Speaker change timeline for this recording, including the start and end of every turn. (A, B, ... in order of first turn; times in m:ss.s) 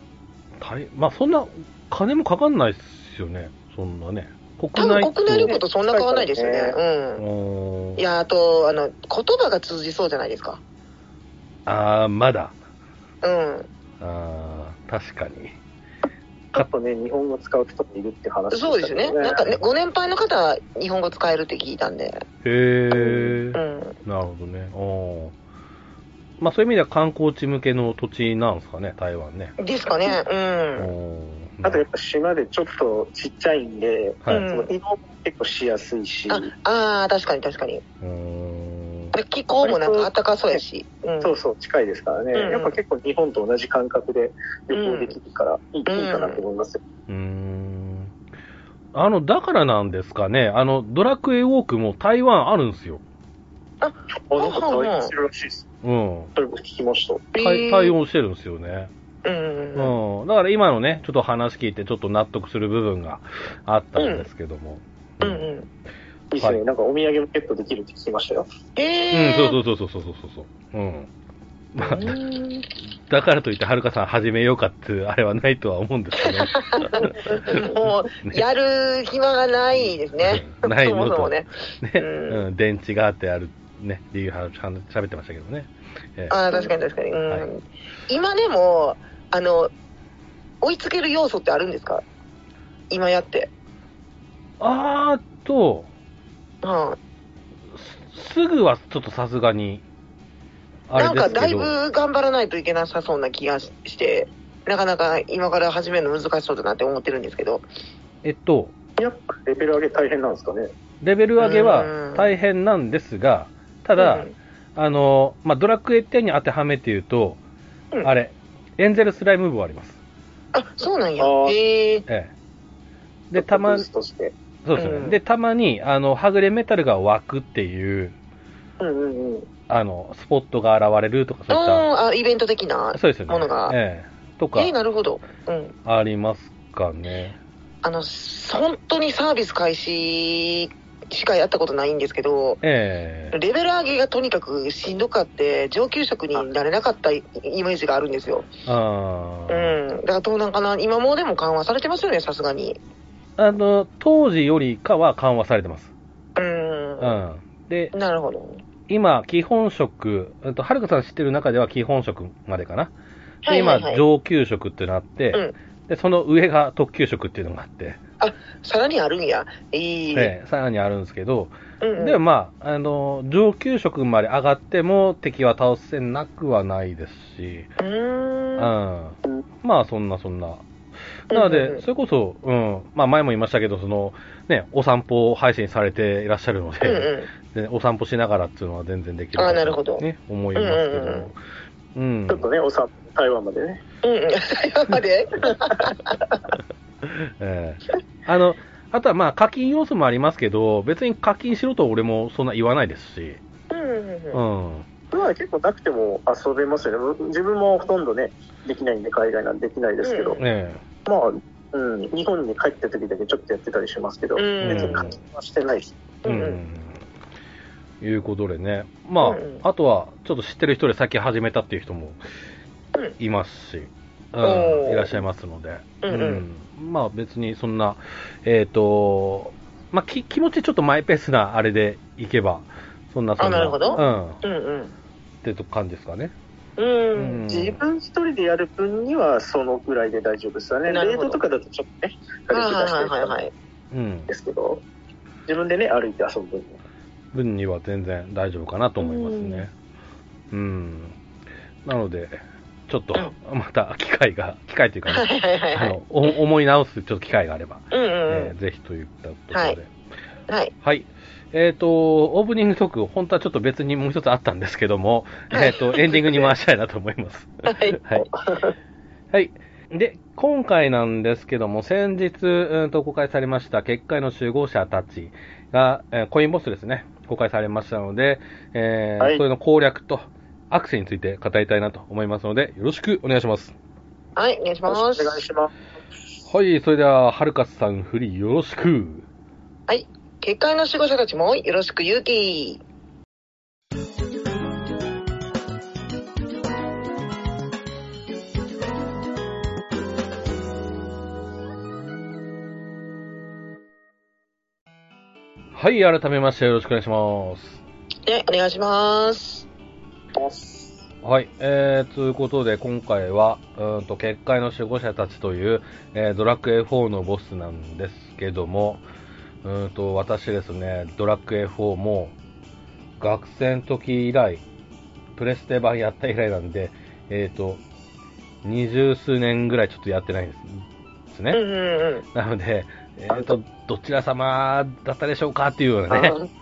0:00.6-0:05.5 A
0:04.8-0:07.2 B
0:05.3-0:06.8 C
0:07.2-0:08.0 A
0:08.0-0:10.6 B
0:11.6-0:12.6 A
0:13.2-0:13.7 B
0:14.0-0:15.6 A
0:16.5-0:19.4 C
0:18.5-0:22.2 B
0:22.4-0:25.3 A
0:22.9-0:24.0 B
0:26.4-0:29.6 A
0:29.6-0:30.9 B
0:30.8-0:31.8 A
0:31.6-0:36.5 C
0:34.3-0:34.7 B
0:36.3-0:37.8 B
0:38.0-0:39.1 A
0:39.1-0:41.3 B
0:39.6-0:40.6 C
0:41.2-0:46.8 C
0:42.3-0:42.8 B
0:44.7-0:45.1 B
0:45.9-0:46.4 B
0:47.1-0:48.1 A
0:48.9-0:53.0 A
0:53.8-0:55.1 B
0:54.3-0:55.6 C
0:55.8-0:56.3 A
0:56.4-0:57.3 C
0:57.3-0:58.0 B
0:57.4-0:58.9 A
0:59.2-1:00.0 B
0:59.7-1:05.5 A
1:04.0-1:04.2 B
1:05.2-1:05.7 B
1:06.3-1:08.5 C
1:08.8-1:09.6 B
1:09.1-1:11.1 A
1:11.7-1:12.2 A
1:11.8-1:12.6 B
1:13.0-1:18.4 A
1:16.2-1:22.4 B
1:20.2-1:26.4 A
1:26.3-1:29.7 B
1:30.6-1:32.0 B
1:32.9-1:33.5 B
1:34.6-1:35.9 A
1:36.6-1:37.0 B
1:37.7-1:39.8 A
1:40.9-1:41.7 A
1:41.0-1:47.6 B
1:48.2-1:48.7 A
1:49.0-1:50.7 C
1:51.0-1:57.4 A
1:51.4-1:52.3 B
1:54.0-1:54.3 B
1:58.0-2:00.0 A
2:00.5-2:02.0 B
2:01.2-2:01.6 C
2:03.3-2:03.9 A
2:03.3-2:04.3 C
2:04.6-2:08.1 A
2:04.8-2:05.2 B
2:08.8-2:09.5 C
2:09.7-2:11.8 A
2:11.5-2:13.8 B
2:12.9-2:14.7 A
2:14.5-2:15.7 B
2:15.8-2:17.4 A
2:17.8-2:22.6 B
2:22.6-2:23.4 A
2:23.3-2:28.5 B
2:28.6-2:29.8 A
2:29.5-2:32.8 B
2:33.4-2:35.9 A
2:36.4-2:37.2 B
2:37.0-2:37.9 A
2:37.9-2:38.6 B
2:38.9-2:42.9 A
2:43.4-2:44.0 B
2:43.5-2:48.0 A
2:48.2-2:50.3 B
2:50.1-2:57.7 A
2:51.8-2:52.2 B
2:57.8-2:58.7 B
2:58.6-3:00.6 A
3:01.3-3:11.4 A
3:01.3-3:01.8 B
3:06.8-3:07.3 B
3:09.4-3:10.0 B
3:10.5-3:11.3 B
3:11.9-3:12.5 A
3:12.3-3:13.8 C
3:14.0-3:16.1 B
3:17.0-3:23.4 A
3:23.7-3:24.4 B
3:24.3-3:24.9 A
3:25.1-3:30.4 C
3:30.0-3:30.4 B
3:30.4-3:30.8 A
3:31.0-3:35.9 C
3:34.4-3:35.1 B
3:34.6-3:35.2 A
3:36.2-3:36.6 B
3:36.2-3:37.0 A
3:38.0-3:42.2 A
3:39.2-3:39.6 B
3:43.2-3:54.4 A
3:44.4-3:45.2 B
3:46.0-3:46.4 B
3:53.4-3:54.9 B
3:55.4-3:56.3 A
3:56.8-3:57.4 B
3:57.1-3:57.8 A
3:57.5-4:03.4 C
4:00.9-4:01.4 B
4:02.5-4:03.5 B
4:03.9-4:04.3 A
4:04.3-4:04.8 C
4:05.5-4:06.8 C
4:07.3-4:09.7 A
4:09.0-4:09.6 B
4:10.5-4:11.2 A
4:11.8-4:19.9 A
4:15.1-4:16.0 B
4:17.9-4:18.5 B
4:19.5-4:19.8 B
4:20.8-4:28.2 A
4:25.5-4:26.5 B
4:27.6-4:28.2 B
4:29.3-4:43.8 A
4:44.4-4:45.4 B
4:44.9-4:45.7 C
4:46.4-4:49.2 A
4:49.9-4:52.8 B
5:05.7-5:07.8 A
5:08.2-5:09.6 B
5:10.3-5:11.0 C
5:11.2-5:19.0 A
5:19.6-5:22.3 A
5:23.2-5:24.6 A
5:25.4-5:27.8 A
5:28.6-5:31.6 A
5:31.5-5:32.2 B
5:32.3-5:36.4 A
5:36.1-5:36.4 C